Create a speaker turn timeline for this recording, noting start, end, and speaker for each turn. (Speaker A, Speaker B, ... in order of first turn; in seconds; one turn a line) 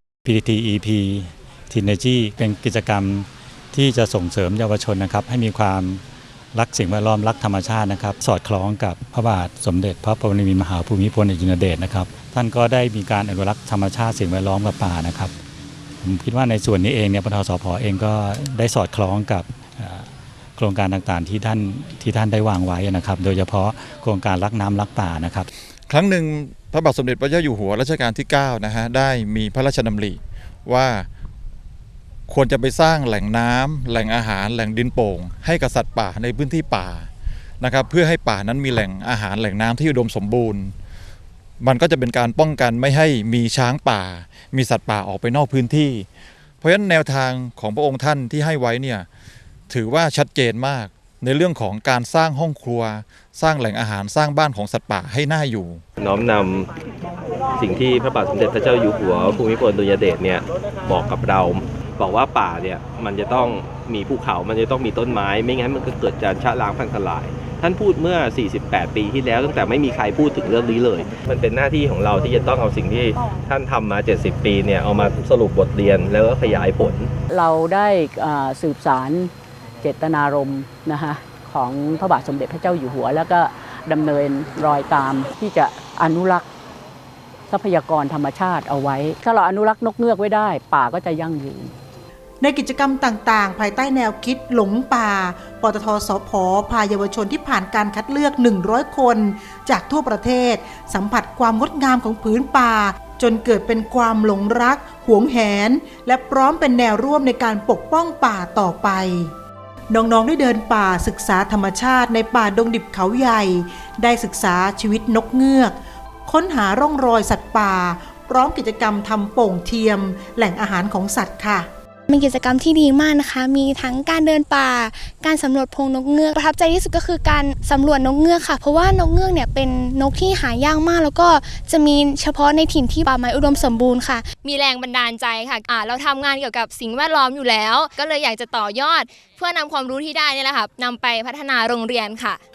Speaker A: 0.2-6.0
Speaker A: 6.5-15.3
Speaker A: 16.0-25.5
Speaker B: 25.9-31.1
Speaker B: 32.3-37.1
Speaker B: 37.6-40.7
Speaker B: 41.6-46.0
Speaker B: 46.6-49.0
Speaker B: 49.7-55.8
Speaker C: 56.0-56.7
Speaker C: 57.5-77.1
Speaker D: 77.3-79.3
Speaker D: 79.8-86.5
Speaker D: 87.5-91.7
Speaker E: 92.4-109.3
Speaker E: 109.9-115.8
Speaker E: 116.3-121.7
Speaker F: 122.1-134.2
Speaker G: 134.4-142.4